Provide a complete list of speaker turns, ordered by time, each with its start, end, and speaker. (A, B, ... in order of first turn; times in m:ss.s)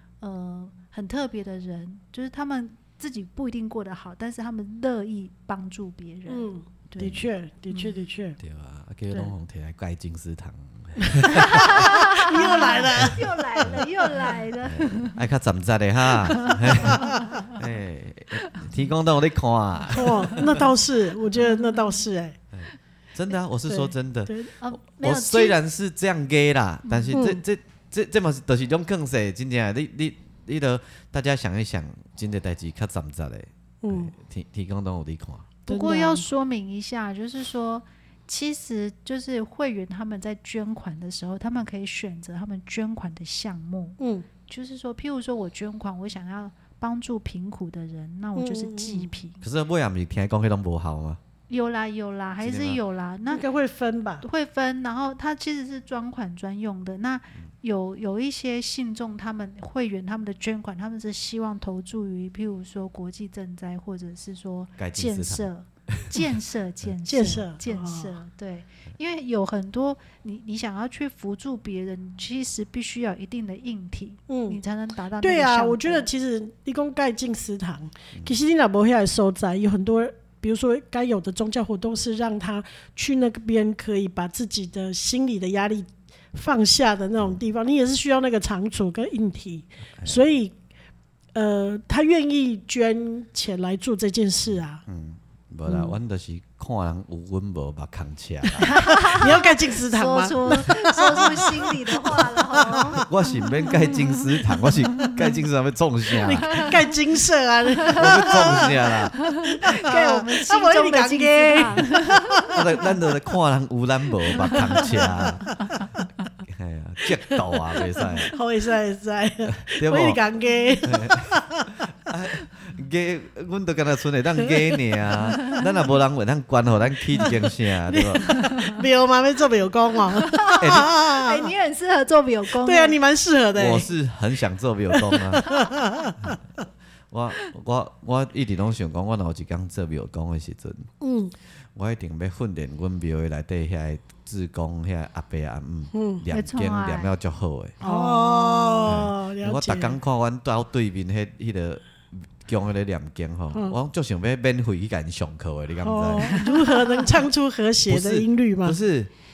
0:00.2-0:07.2 A
0:06.3-0:08.4 B
0:07.0-0:07.2 C
0:07.7-0:08.0 A
0:08.4-0:12.1 C
0:11.2-0:15.2 A
0:11.8-0:13.7 B
0:12.9-0:13.8 C
0:14.6-0:20.6 C
0:16.3-0:17.6 A
0:19.9-0:22.4 B
0:21.3-0:22.0 A
0:22.5-0:35.5 C
0:23.7-0:24.5 B
0:24.6-0:25.6 A
0:26.8-0:27.2 A
0:27.1-0:27.4 B
0:33.8-0:34.1 B
0:35.7-0:49.4 A
0:35.7-0:36.2 B
0:44.0-0:44.3 B
0:48.4-0:49.1 B
0:49.4-0:51.2 C
0:51.5-0:53.4 A
0:52.4-0:52.8 C
0:53.3-0:54.2 B
0:54.2-1:16.1 A
1:04.8-1:06.2 C
1:07.1-1:08.1 B
1:14.3-1:14.6 B
1:15.2-1:30.5 B
1:30.0-1:30.2 C
1:31.3-1:34.8 B
1:34.5-1:38.7 C
1:38.6-1:43.0 B
1:38.6-1:43.1 A
1:43.0-1:46.7 C
1:43.6-1:44.2 A
1:46.2-1:48.8 B
1:46.5-1:46.8 A
1:47.8-1:48.6 A
1:47.9-1:49.2 C
1:49.1-1:52.3 A
1:49.5-1:52.7 B
1:52.5-1:55.4 C
1:54.5-1:54.8 A
1:54.5-1:55.3 B
1:56.5-1:58.4 C
1:58.3-2:01.7 B
1:59.5-2:00.2 C
2:00.9-2:01.3 C
2:02.1-2:08.4 C
2:07.9-2:11.5 B
2:08.4-2:08.8 A
2:10.2-2:13.0 A
2:10.6-2:10.9 C
2:12.6-2:13.9 B
2:13.6-2:15.5 C
2:14.9-2:16.4 B
2:15.5-2:15.7 A
2:17.1-2:20.9 C
2:21.0-2:21.3 B
2:21.8-2:27.8 C
2:25.9-2:26.2 B
2:26.3-2:27.1 A
2:27.8-2:30.0 B
2:27.8-2:28.9 A
2:28.8-2:36.4 C
2:35.8-2:38.8 B
2:36.3-2:37.1 A
2:37.9-2:39.1 C